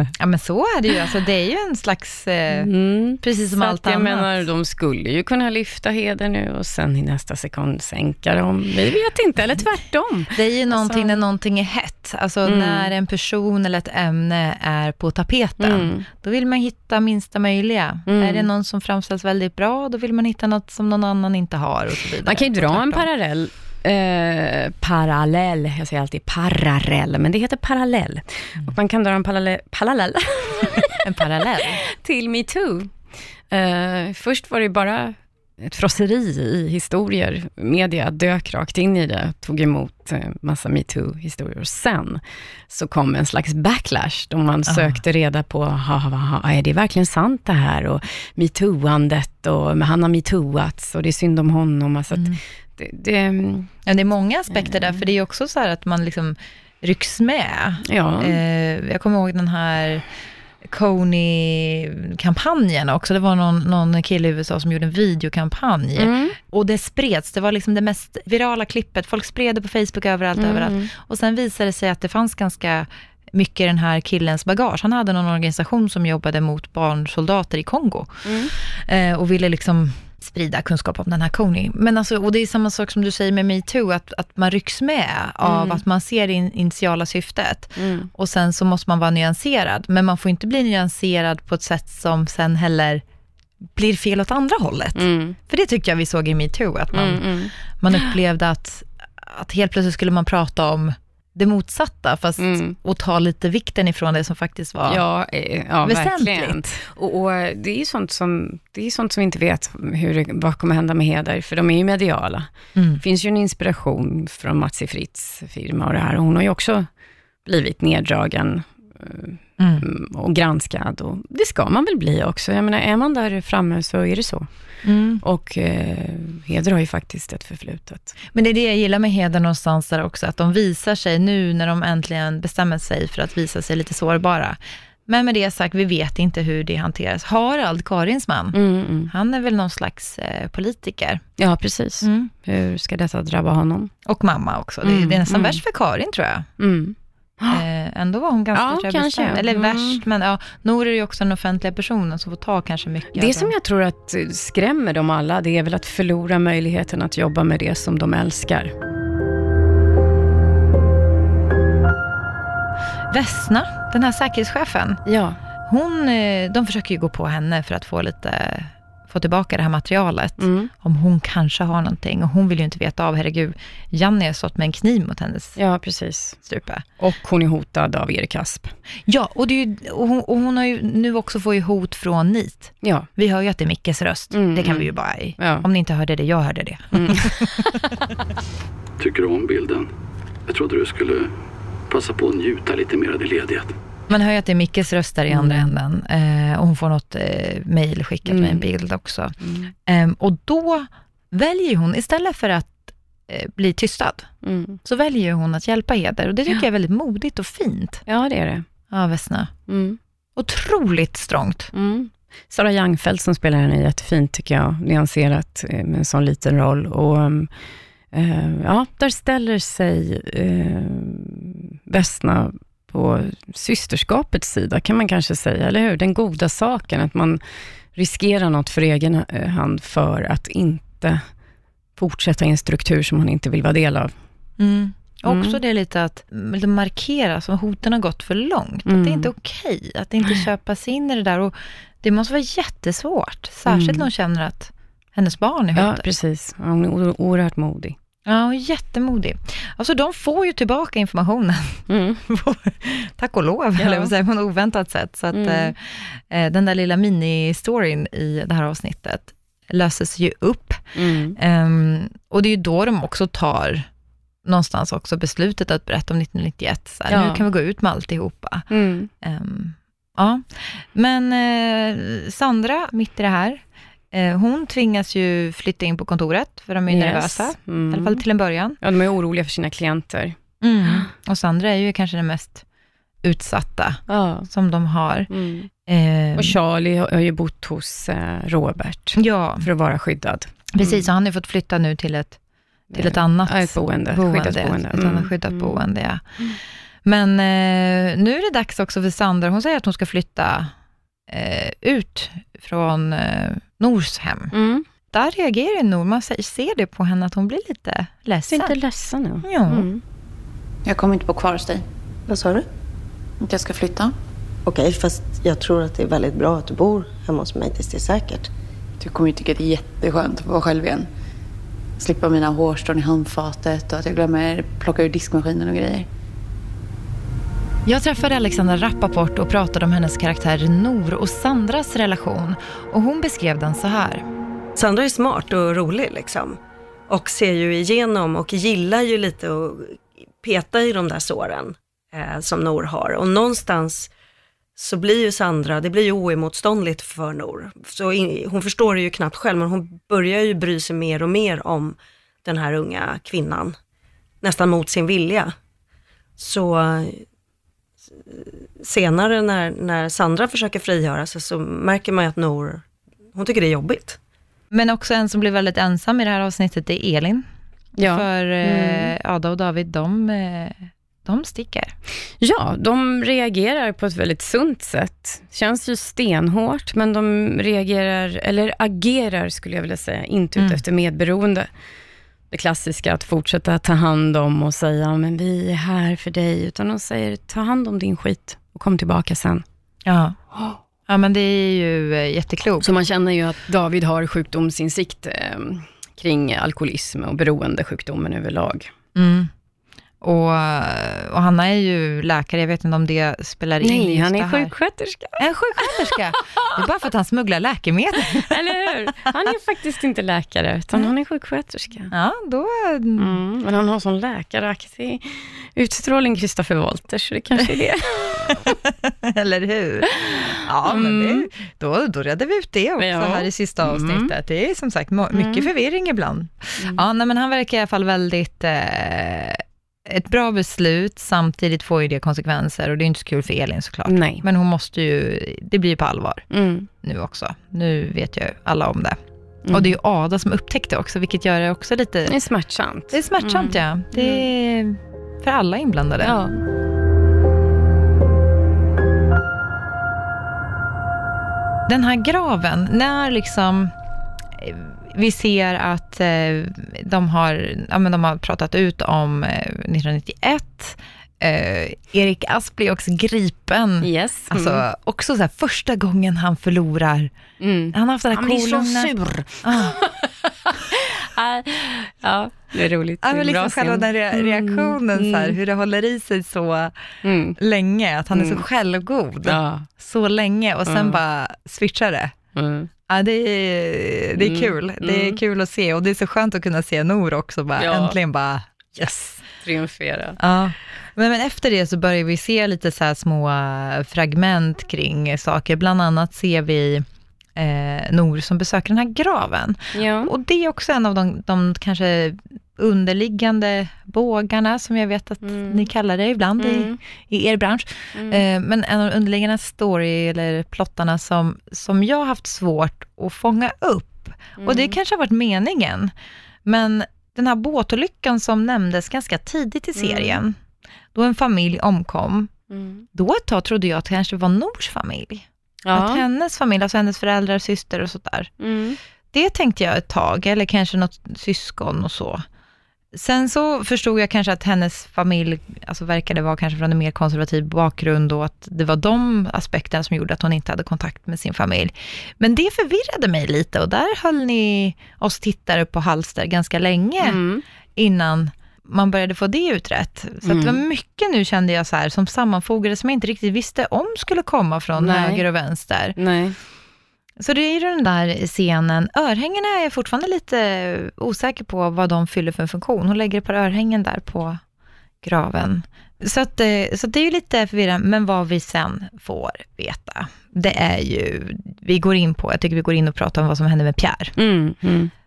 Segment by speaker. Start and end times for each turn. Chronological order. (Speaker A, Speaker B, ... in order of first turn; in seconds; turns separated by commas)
Speaker A: 0.1-2.7, Speaker B: 2.5-11.2, Speaker A: 3.2-4.5, Speaker A: 10.3-23.1, Speaker B: 12.4-12.9, Speaker B: 15.6-16.1, Speaker B: 18.1-18.5, Speaker B: 22.2-31.2, Speaker A: 31.0-31.8, Speaker B: 31.9-32.9, Speaker B: 33.5-53.7, Speaker A: 44.7-45.0, Speaker A: 52.1-52.4, Speaker A: 53.8-60.0, Speaker B: 54.5-55.0, Speaker B: 57.8-58.4, Speaker A: 60.6-93.0, Speaker B: 66.0-66.4, Speaker B: 70.3-70.9, Speaker B: 78.2-78.5, Speaker B: 85.4-85.8, Speaker B: 87.8-88.1, Speaker A: 93.8-105.0, Speaker B: 94.9-95.4, Speaker B: 96.9-97.5, Speaker B: 102.4-102.8, Speaker B: 104.9-116.9, Speaker A: 105.8-106.8, Speaker A: 112.7-113.0, Speaker B: 117.4-124.5, Speaker A: 119.6-119.8, Speaker A: 124.8-125.2, Speaker B: 125.2-128.2, Speaker A: 128.3-141.2, Speaker B: 138.5-139.1, Speaker B: 141.4-143.9, Speaker A: 142.0-142.3, Speaker A: 144.0-146.5, Speaker B: 144.8-145.6, Speaker B: 146.6-147.6, Speaker A: 147.5-153.5, Speaker B: 148.5-150.0, Speaker B: 153.1-158.7, Speaker A: 163.1-165.0, Speaker B: 165.1-165.4, Speaker A: 165.7-175.6, Speaker B: 170.4-170.7, Speaker B: 175.6-176.4, Speaker A: 176.4-176.8, Speaker B: 177.0-178.7, Speaker A: 179.1-187.8, Speaker B: 182.8-183.1, Speaker B: 184.3-185.7, Speaker B: 186.9-187.8, Speaker C: 189.0-189.9, Speaker C: 190.5-191.3, Speaker C: 191.9-193.7, Speaker A: 194.1-199.3, Speaker B: 195.3-195.7, Speaker B: 198.2-198.6, Speaker B: 199.4-199.7, Speaker A: 199.8-204.3, Speaker B: 204.4-204.8, Speaker A: 204.8-208.0, Speaker B: 208.1-208.7, Speaker A: 208.9-209.5, Speaker B: 209.7-210.0, Speaker A: 210.3-211.7, Speaker B: 211.7-217.5, Speaker B: 218.1-227.4, Speaker B: 227.9-231.3, Speaker B: 232.0-234.1, Speaker A: 234.6-246.0, Speaker B: 235.3-235.6, Speaker B: 238.8-239.3, Speaker B: 243.7-244.1, Speaker B: 245.8-247.9, Speaker A: 248.2-260.8, Speaker B: 251.9-252.2, Speaker B: 253.8-254.1, Speaker B: 255.3-255.7, Speaker B: 260.9-261.4, Speaker A: 261.4-263.9, Speaker A: 264.4-268.6, Speaker B: 267.1-267.4, Speaker B: 268.7-269.1, Speaker A: 269.2-278.8, Speaker B: 276.9-278.2, Speaker B: 278.8-280.3, Speaker A: 280.6-282.6, Speaker A: 283.2-285.3, Speaker B: 284.1-284.5, Speaker B: 285.3-285.7, Speaker A: 285.9-286.6, Speaker B: 286.4-291.0, Speaker A: 289.2-289.6, Speaker A: 290.7-292.4, Speaker B: 292.9-295.8, Speaker A: 292.9-296.2, Speaker A: 297.0-300.7, Speaker A: 301.3-304.5, Speaker B: 304.5-304.8, Speaker A: 305.1-308.8, Speaker B: 308.5-310.0, Speaker A: 309.4-309.9, Speaker D: 310.9-311.8, Speaker E: 312.3-312.6, Speaker D: 313.4-314.1, Speaker E: 314.6-318.5, Speaker D: 319.0-321.1, Speaker D: 322.0-326.1, Speaker A: 327.9-334.2, Speaker E: 334.8-336.6, Speaker E: 337.1-344.1, Speaker E: 344.8-353.7, Speaker E: 354.4-355.5, Speaker E: 356.4-357.2, Speaker E: 358.2-364.2, Speaker A: 364.7-367.4, Speaker B: 368.0-369.1, Speaker A: 368.0-371.9, Speaker B: 372.4-381.7, Speaker A: 380.6-380.8, Speaker B: 382.5-389.6, Speaker A: 390.1-390.4, Speaker A: 391.1-392.9, Speaker B: 392.8-398.9, Speaker A: 399.1-399.5, Speaker A: 400.2-404.7, Speaker B: 403.8-406.8, Speaker A: 405.4-408.6, Speaker B: 408.3-412.1, Speaker A: 412.1-413.4, Speaker B: 413.2-418.7, Speaker A: 418.5-436.5, Speaker B: 420.2-421.5, Speaker B: 423.0-424.3, Speaker B: 425.3-425.7, Speaker B: 434.1-434.4, Speaker B: 436.5-436.9, Speaker A: 437.0-439.2, Speaker B: 439.6-439.9, Speaker A: 439.7-442.3, Speaker B: 442.3-444.5, Speaker A: 443.1-446.4, Speaker B: 446.2-446.6, Speaker A: 451.9-453.9, Speaker A: 454.6-467.3, Speaker B: 464.0-464.8, Speaker B: 467.6-475.6, Speaker A: 467.9-469.1, Speaker A: 469.6-470.0, Speaker A: 473.2-477.0, Speaker B: 477.2-477.6, Speaker A: 477.6-482.3, Speaker B: 478.3-478.6, Speaker B: 479.4-479.9, Speaker B: 480.9-481.2, Speaker B: 482.6-482.9, Speaker A: 483.1-489.1, Speaker B: 484.4-485.4, Speaker B: 487.8-488.2, Speaker B: 489.0-490.4, Speaker A: 490.4-516.1, Speaker B: 499.9-500.3, Speaker B: 505.4-505.9, Speaker B: 506.6-507.0, Speaker B: 508.1-508.4, Speaker B: 514.6-515.0, Speaker A: 516.6-520.6, Speaker B: 519.9-520.4, Speaker A: 521.1-522.5, Speaker B: 522.7-523.0, Speaker A: 523.1-528.5, Speaker B: 525.8-526.2, Speaker B: 528.6-529.0, Speaker A: 529.3-532.4, Speaker A: 533.1-547.4, Speaker B: 547.2-547.6, Speaker A: 548.0-556.2, Speaker B: 550.4-550.8, Speaker B: 555.0-555.5, Speaker B: 556.1-556.5, Speaker A: 557.4-564.6, Speaker A: 565.2-574.3, Speaker B: 574.4-575.1